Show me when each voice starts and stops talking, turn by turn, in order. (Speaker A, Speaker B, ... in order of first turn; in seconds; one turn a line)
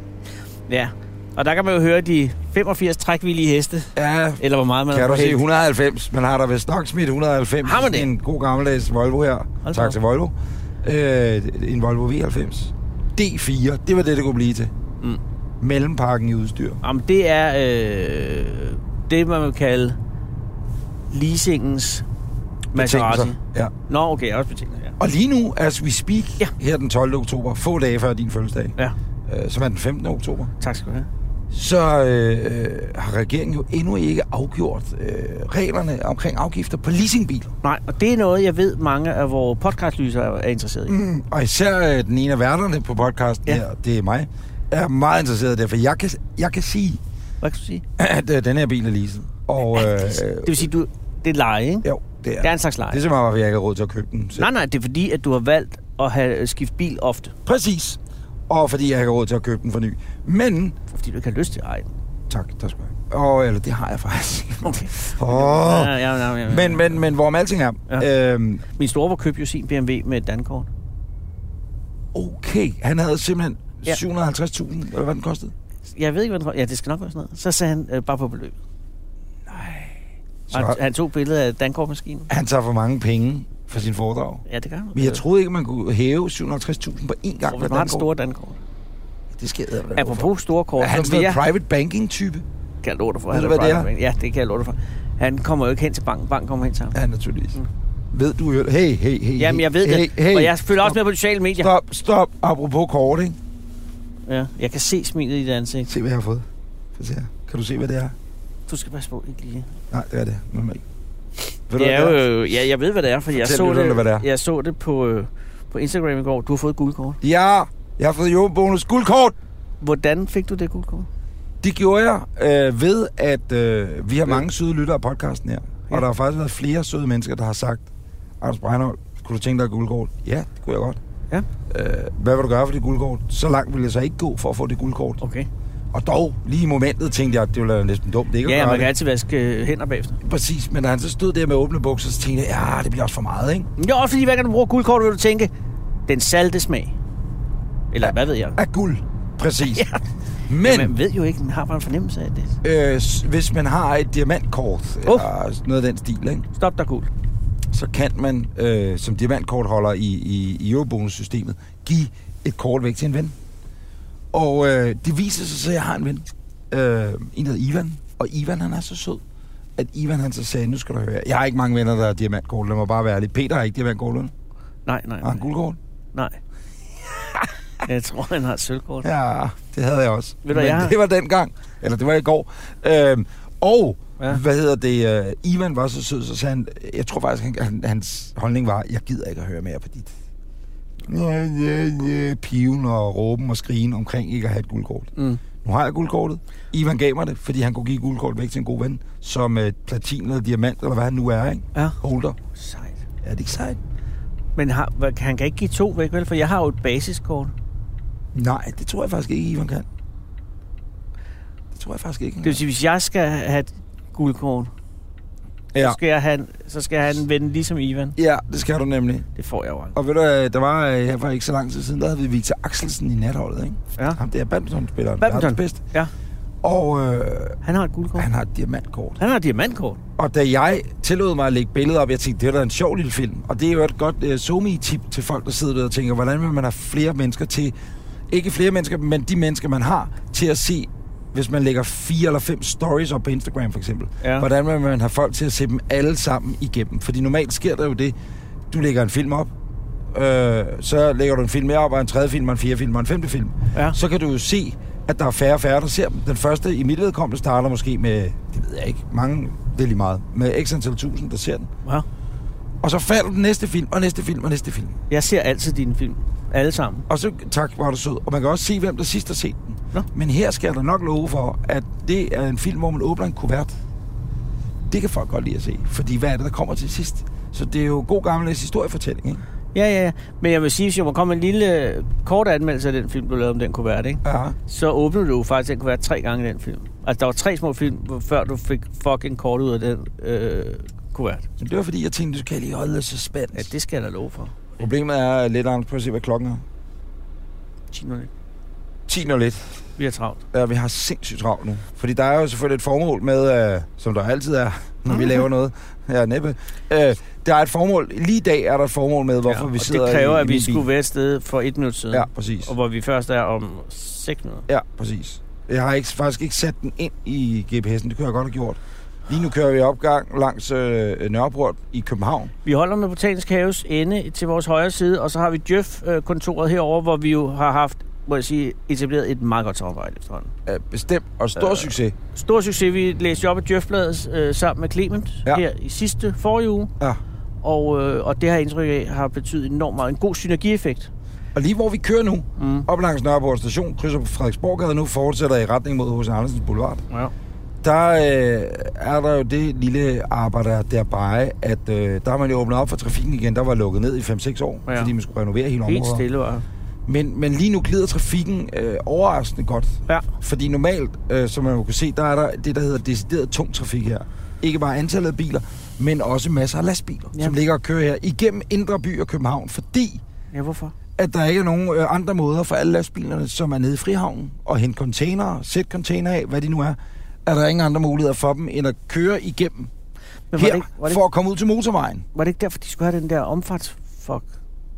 Speaker A: 0.7-5.4
Speaker B: 4.0-14.7
Speaker A: 7.6-8.1
Speaker A: 9.6-10.0
Speaker B: 15.6-16.8
Speaker A: 16.8-20.0
Speaker A: 21.1-22.1
Speaker B: 22.7-23.7
Speaker A: 22.7-25.0
Speaker B: 25.0-28.8
Speaker B: 29.3-30.5
Speaker A: 30.6-31.1
Speaker B: 31.5-37.5
Speaker A: 37.6-41.0
Speaker B: 40.9-47.0
Speaker A: 47.4-47.8
Speaker B: 48.0-50.7
Speaker A: 49.7-51.9
Speaker B: 51.8-54.5
Speaker A: 52.4-53.0
Speaker A: 54.4-57.3
Speaker B: 57.5-60.8
Speaker A: 60.9-61.9
Speaker B: 62.3-68.6
Speaker A: 64.6-67.0
Speaker A: 68.8-70.7
Speaker B: 72.1-75.5
Speaker A: 75.9-78.6
Speaker B: 79.5-80.0
Speaker B: 80.5-80.8
Speaker A: 80.5-82.3
Speaker B: 82.3-84.4
Speaker A: 84.5-85.2
Speaker B: 85.0-88.1
Speaker A: 87.5-88.6
Speaker B: 89.3-92.5
Speaker A: 90.0-91.4
Speaker A: 92.8-97.0
Speaker B: 93.3-93.9
Speaker B: 96.9-97.6
Speaker B: 98.1-101.0
Speaker A: 99.4-101.7
Speaker B: 101.6-103.4
Speaker A: 104.3-105.9
Speaker B: 105.9-108.2
Speaker A: 108.7-109.7
Speaker B: 109.9-110.8
Speaker B: 111.7-112.3
Speaker A: 111.8-117.2
Speaker B: 113.3-114.3
Speaker B: 117.2-119.4
Speaker A: 119.8-121.1
Speaker B: 121.6-127.9
Speaker B: 128.4-131.0
Speaker B: 131.7-135.2
Speaker A: 135.2-135.5
Speaker B: 135.9-138.9
Speaker A: 138.4-140.2
Speaker B: 140.2-143.7
Speaker A: 143.8-145.5
Speaker A: 146.1-146.9
Speaker A: 147.9-148.6
Speaker B: 148.0-149.9
Speaker A: 149.7-150.0
Speaker B: 150.5-150.9
Speaker A: 150.6-152.6
Speaker B: 152.6-156.5
Speaker A: 155.1-155.3
Speaker A: 156.5-157.1
Speaker B: 157.7-163.3
Speaker B: 164.3-169.2
Speaker B: 169.8-174.3
Speaker A: 174.9-175.4
Speaker B: 175.2-175.8
Speaker A: 177.8-179.1
Speaker B: 179.0-190.2
Speaker A: 180.4-181.0
Speaker B: 191.1-202.4
Speaker A: 195.2-195.4
Speaker A: 202.6-203.0
Speaker B: 203.2-203.8
Speaker A: 204.6-207.5
Speaker B: 208.3-209.9
Speaker B: 211.7-212.6
Speaker A: 212.4-214.7
Speaker A: 215.8-218.2
Speaker B: 218.2-219.3
Speaker A: 219.4-219.9
Speaker B: 219.9-225.8
Speaker A: 225.2-226.1
Speaker B: 226.6-227.6
Speaker A: 227.6-228.3
Speaker B: 228.2-229.2
Speaker A: 229.2-230.0
Speaker B: 230.2-237.8
Speaker B: 238.3-248.2
Speaker A: 244.2-244.5
Speaker B: 248.7-249.5
Speaker B: 250.1-261.7
Speaker B: 262.8-265.0
Speaker A: 265.1-267.1
Speaker B: 267.1-273.7
Speaker B: 274.9-279.4
Speaker A: 279.7-291.5
Speaker B: 284.2-284.6
Speaker B: 291.6-293.7
Speaker A: 293.5-294.6
Speaker B: 294.8-296.6
Speaker A: 297.9-298.3
Speaker B: 299.1-299.8
Speaker A: 300.0-300.4
Speaker B: 300.5-310.9
Speaker A: 305.1-305.4
Speaker A: 309.5-314.7
Speaker B: 312.1-312.7
Speaker B: 314.7-322.5
Speaker A: 322.6-330.5
Speaker B: 330.7-332.1
Speaker A: 331.6-336.9
Speaker A: 337.6-341.1
Speaker B: 341.6-347.0
Speaker A: 342.6-342.9
Speaker B: 347.8-356.2
Speaker A: 354.9-355.1
Speaker A: 355.9-356.6
Speaker B: 357.1-370.2
Speaker A: 370.5-370.9
Speaker B: 371.2-379.9
Speaker A: 380.5-381.2
Speaker B: 380.5-382.2
Speaker A: 382.3-384.5